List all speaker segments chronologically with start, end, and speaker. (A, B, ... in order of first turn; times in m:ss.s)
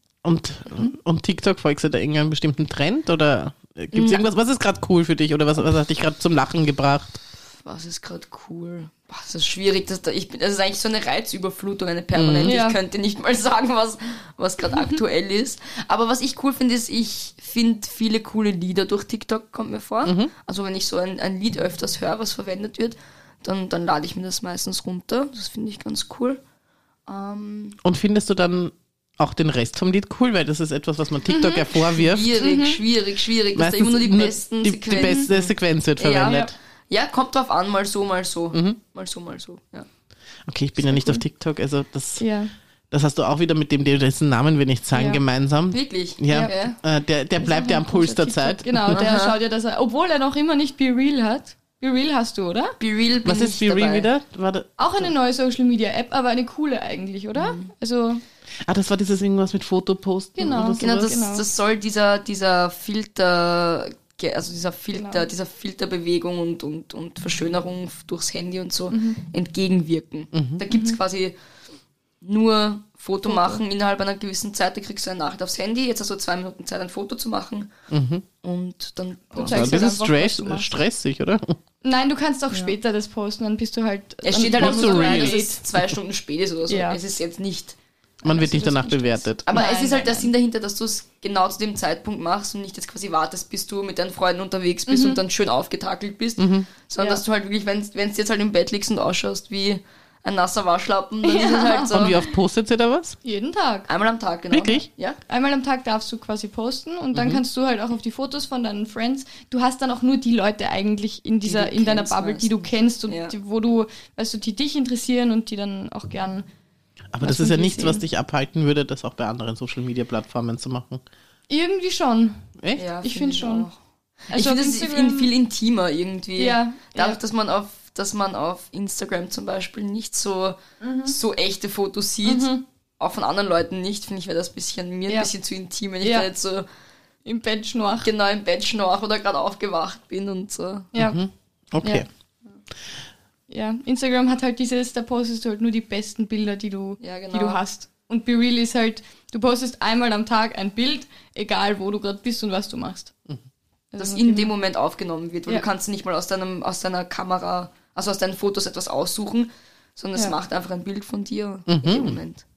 0:00.2-0:07.2 A
0:03.9-0:04.2 B
0:07.6-0:26.4 B
0:12.1-0:12.6 A
0:12.4-0:12.8 C
0:20.0-0:20.3 A
0:27.1-0:27.8 B
0:27.8-0:32.4 A
0:31.3-0:32.8 C
0:32.0-0:39.9 B
0:33.6-0:36.5 A
0:35.0-0:35.3 C
0:36.3-0:36.5 C
0:38.5-0:38.8 A
0:40.5-0:42.2 A
0:42.2-0:42.5 C
0:42.9-0:49.0 A
0:44.9-0:45.2 C
0:45.7-0:46.8 B
0:46.3-0:46.6 C
0:47.4-0:52.8 C
0:48.9-0:49.4 B
0:52.8-0:54.1 B
0:53.2-0:55.1 A
0:54.8-0:58.2 C
0:57.4-0:57.7 B
0:58.7-1:01.1 A
1:00.4-1:01.4 C
1:00.6-1:11.4 B
1:04.9-1:05.3 C
1:08.9-1:09.2 C
1:10.3-1:10.6 A
1:10.7-1:11.0 C
1:12.2-1:17.7 B
1:13.3-1:13.6 C
1:17.9-1:18.2 A
1:18.4-1:20.0 B
1:19.3-1:20.8 C
1:19.4-1:21.6 A
1:21.8-1:25.7 C
1:24.2-1:27.8 B
1:24.6-1:25.4 A
1:26.7-1:27.0 C
1:28.2-1:29.5 A
1:28.3-1:30.3 C
1:29.5-1:42.2 B
1:34.9-1:35.2 C
1:36.4-1:36.7 A
1:41.2-1:42.2 C
1:41.9-1:43.2 A
1:43.2-1:43.9 C
1:43.9-1:45.2 B
1:44.5-1:44.9 A
1:45.3-1:56.5 C
1:47.2-1:47.4 A
1:51.4-1:53.3 B
1:57.1-2:01.0 A
1:57.2-1:58.0 C
2:01.5-2:02.4 C
2:02.8-2:03.8 B
2:03.0-2:03.7 C
2:04.3-2:16.7 B
2:04.3-2:05.3 C
2:06.4-2:07.2 C
2:10.8-2:11.1 C
2:12.2-2:12.6 C
2:16.0-2:16.3 C
2:17.3-2:18.1 C
2:18.0-2:20.9 B
2:20.9-2:21.2 C
2:21.0-2:22.1 A
2:23.5-2:33.1 C
2:27.0-2:27.6 B
2:33.9-2:34.5 C
2:34.0-2:42.4 B
2:41.7-2:42.2 A